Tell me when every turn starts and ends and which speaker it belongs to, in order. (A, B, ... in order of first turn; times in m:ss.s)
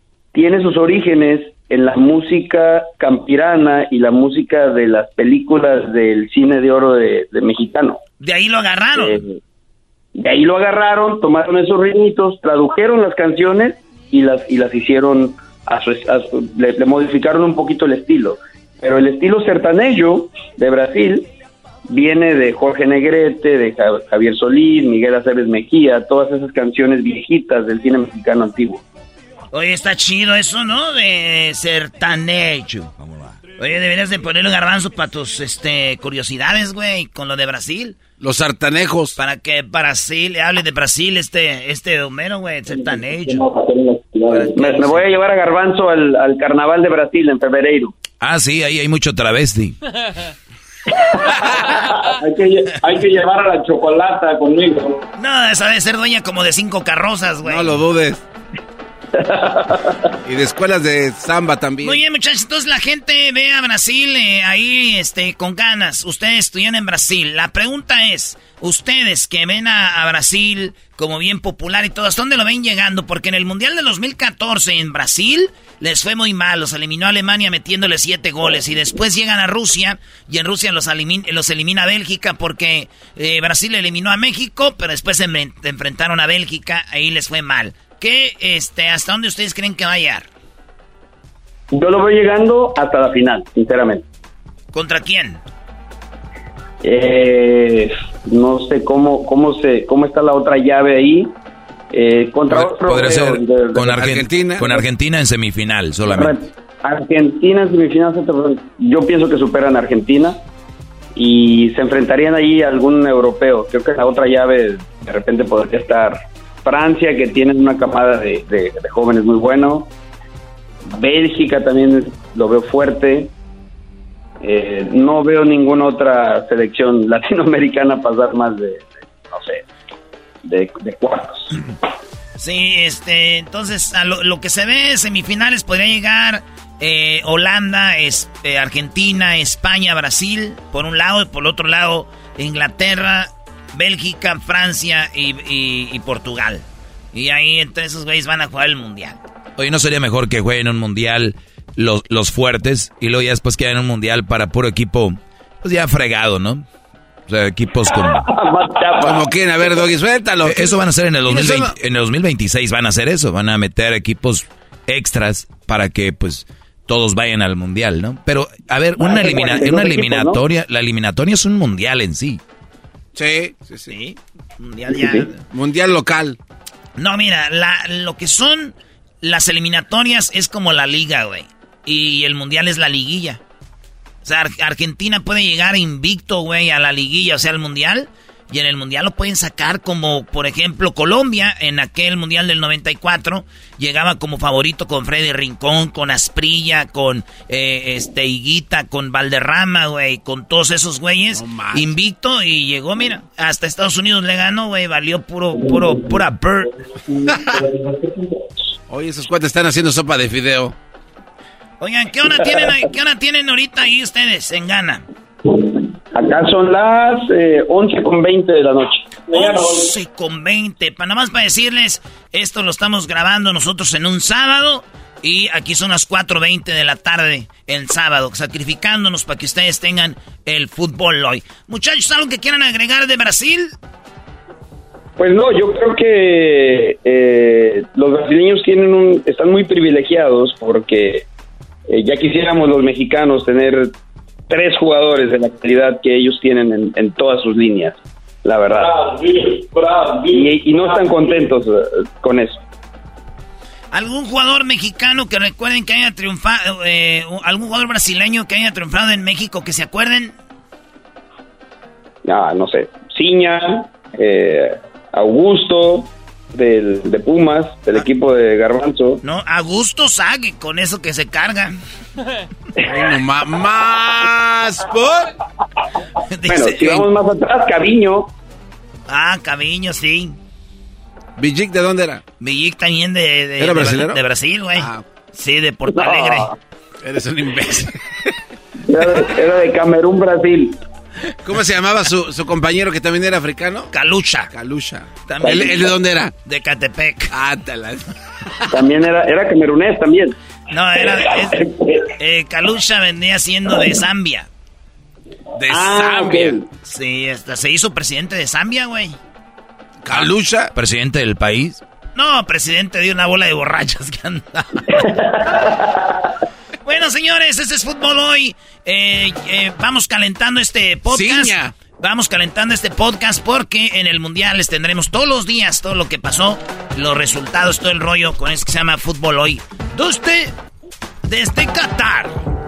0:00.3-0:08.0 A
0:08.2-0:09.2 B
0:09.0-0:09.4 A
0:10.2-0:21.3 A
0:21.9-0:28.8 A
0:29.5-0:32.9 B
0:33.6-0:38.0 B
0:38.2-0:39.2 C
0:39.2-0:43.5 B
0:43.6-0:44.1 D
0:43.9-0:47.9 A
0:44.4-0:45.0 B
0:48.2-0:49.8 E
0:52.2-0:55.0 D
0:55.2-0:57.7 B
0:57.4-0:58.2 C
0:59.2-0:59.9 A
1:00.3-1:02.0 C
1:01.8-1:30.3 B
1:31.7-1:34.0 A
1:34.7-1:35.4 B
1:36.8-1:41.3 A
1:41.9-1:43.8 A
1:42.5-1:46.3 E
1:43.8-1:44.8 C
1:46.0-1:50.4 A
1:51.2-1:59.9 A
2:00.9-2:03.3 A
2:04.4-2:09.6 A
2:10.4-2:11.6 A
2:12.4-2:29.2 B
2:29.6-2:36.7 E
2:37.3-2:38.3 E
2:38.1-2:39.2 A
2:39.0-2:41.7 C
2:40.4-2:52.4 E
2:49.0-2:50.4 A
2:53.2-2:53.9 C
2:53.9-2:55.3 B
2:55.0-2:55.3 A
2:55.5-2:56.4 C
2:57.0-3:03.4 B
3:04.2-3:26.7 B
3:21.3-3:21.9 C
3:27.3-3:27.6 C
3:28.9-3:30.7 C
3:31.8-3:35.0 B
3:32.4-3:32.7 A
3:35.5-3:39.8 A
3:39.3-3:53.7 B
3:55.2-4:01.3 A
4:01.9-4:03.9 A
4:04.5-4:09.0 A
4:08.9-4:11.2 D
4:10.3-4:12.6 A
4:13.9-4:20.3 B
4:22.2-4:29.2 A
4:29.2-4:31.8 B
4:32.9-4:35.3 C
4:36.3-4:37.1 B
4:36.5-4:38.3 A
4:39.1-4:40.4 B
4:41.4-4:42.2 C
4:42.4-4:46.5 B
4:43.6-4:44.2 C
4:44.8-4:45.0 C
4:45.9-4:46.5 A
4:47.0-4:48.0 C
4:48.9-4:50.8 A
4:51.4-4:53.9 C
4:53.9-4:54.5 B
4:54.5-4:56.3 C
4:55.3-4:55.9 B
4:56.4-4:57.3 B
4:57.3-4:58.6 C
4:58.7-5:00.4 A
5:00.7-5:04.5 B
5:01.0-5:02.0 A
5:05.6-5:06.6 C
5:05.7-5:06.6 A
5:06.8-5:09.2 B
5:10.0-5:10.7 C
5:10.7-5:11.8 E
5:12.2-5:14.9 B
5:14.9-5:15.9 A
5:16.8-5:30.5 B
5:21.1-5:21.7 C
5:31.3-5:32.4 B